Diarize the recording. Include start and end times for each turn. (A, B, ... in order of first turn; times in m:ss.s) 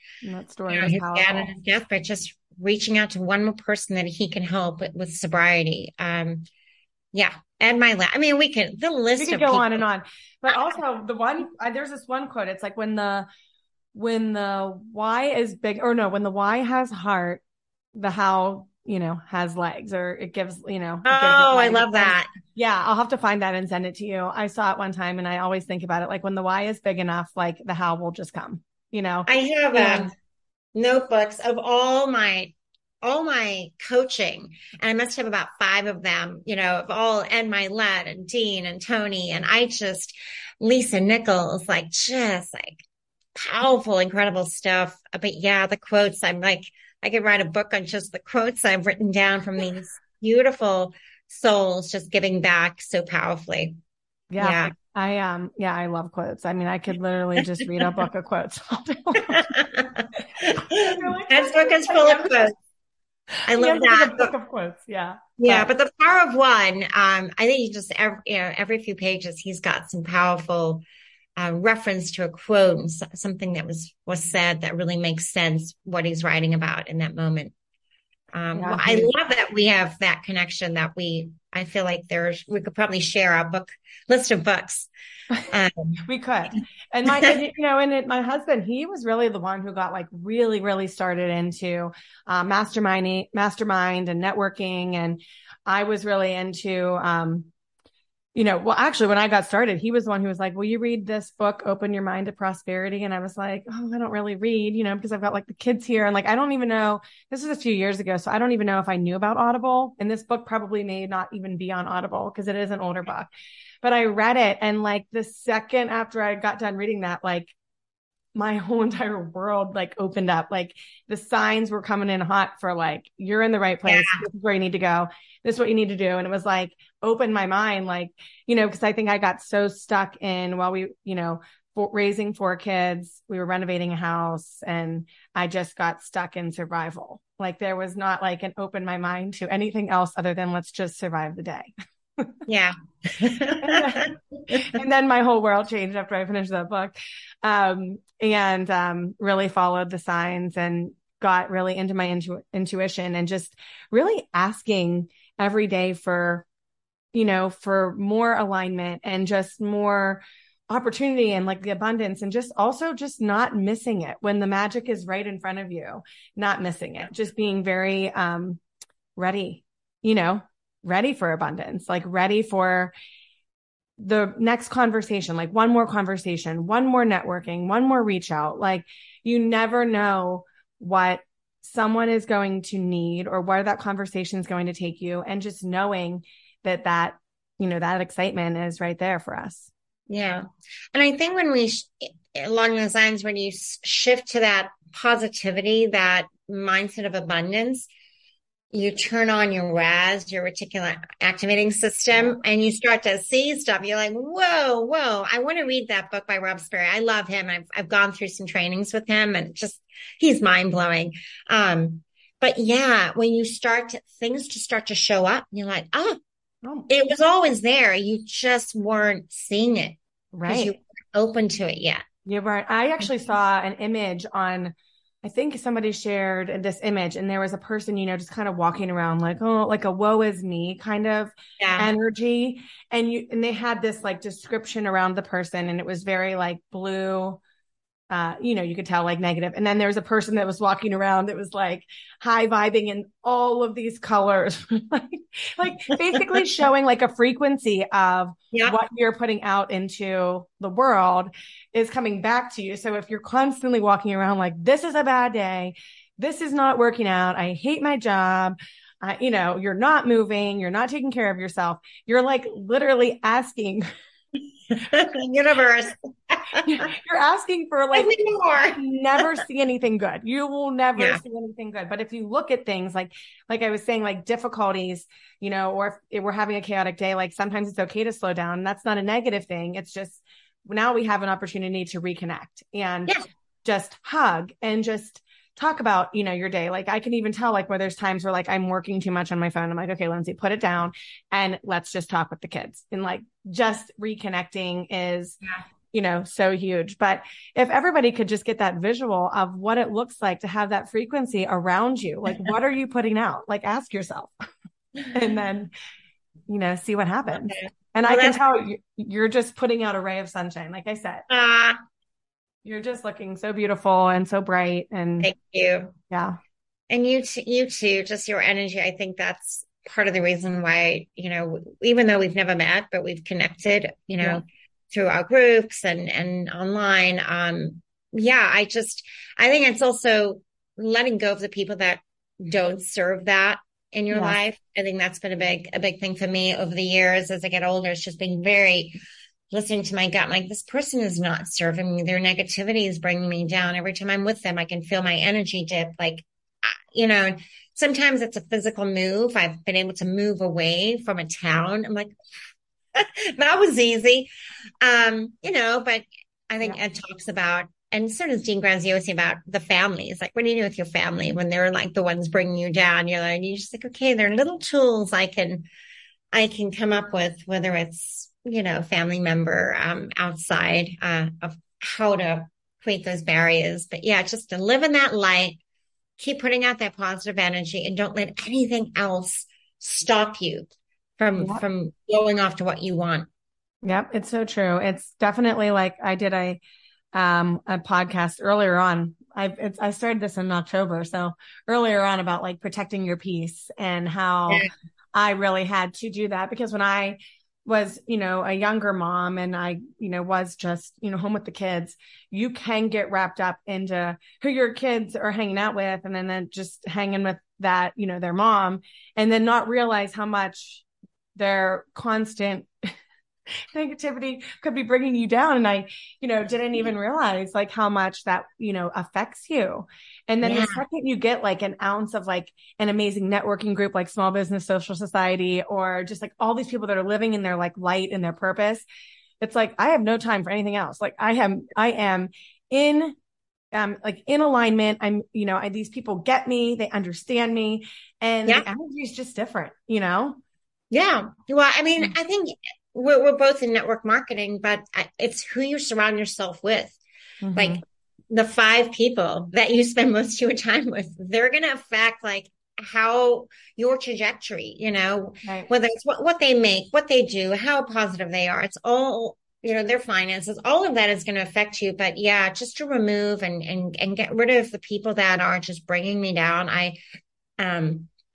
0:00.2-0:01.5 A
0:00.7-0:06.5 B
0:07.1-0:09.8 B
0:09.2-0:13.3 A
0:14.0-0:17.4 A
0:18.0-0:30.1 A
0:21.0-0:22.3 B
0:29.3-0:30.1 B
0:30.8-0:42.8 B
0:43.4-0:53.8 B
0:54.3-0:59.5 A
0:54.4-0:54.7 B
0:59.3-1:02.6 B
1:00.6-1:02.4 A
1:03.5-1:04.3 B
1:03.5-1:05.7 A
1:05.4-1:10.8 B
1:11.4-1:17.5 B
1:18.3-1:24.9 B
1:18.6-1:19.1 A
1:25.5-1:26.0 B
1:26.1-1:37.5 A
1:38.4-1:53.3 A
1:53.8-1:57.5 A
1:58.4-2:22.3 A
2:03.9-2:04.2 B
2:22.5-2:24.6 B
2:23.6-2:36.5 A
2:37.1-2:48.6 A
2:49.2-2:52.9 A
2:54.0-3:09.7 A
3:10.1-3:17.9 B
3:18.7-3:36.2 B
3:36.6-3:36.9 A
3:36.9-3:42.0 B
3:40.3-3:40.7 A
3:42.3-3:57.4 A
3:51.6-3:51.9 B
3:58.1-4:23.9 A
4:08.5-4:08.8 B
4:24.7-4:26.7 B
4:26.6-4:43.1 A
4:28.0-4:29.2 B
4:43.6-4:55.4 A
4:55.9-5:04.3 A
5:05.1-5:05.7 A
5:06.5-5:11.3 A
5:07.5-5:08.4 B
5:11.3-5:11.8 B
5:12.6-5:15.3 A
5:15.2-5:16.0 B
5:16.1-5:16.4 A
5:16.9-5:39.0 B
5:34.1-5:34.4 A
5:39.5-5:52.1 B
5:53.0-5:54.3 B
5:54.8-6:05.7 B
6:06.3-6:15.6 B
6:16.2-6:23.3 B
6:23.8-6:26.6 A
6:27.1-6:50.8 A
6:51.4-6:52.7 A
6:53.7-7:08.8 A
7:00.4-7:00.8 B
7:09.4-7:13.2 A
7:13.7-7:20.4 A
7:20.9-7:27.0 B
7:27.4-7:27.8 A
7:27.6-7:47.0 B
7:47.6-7:48.1 B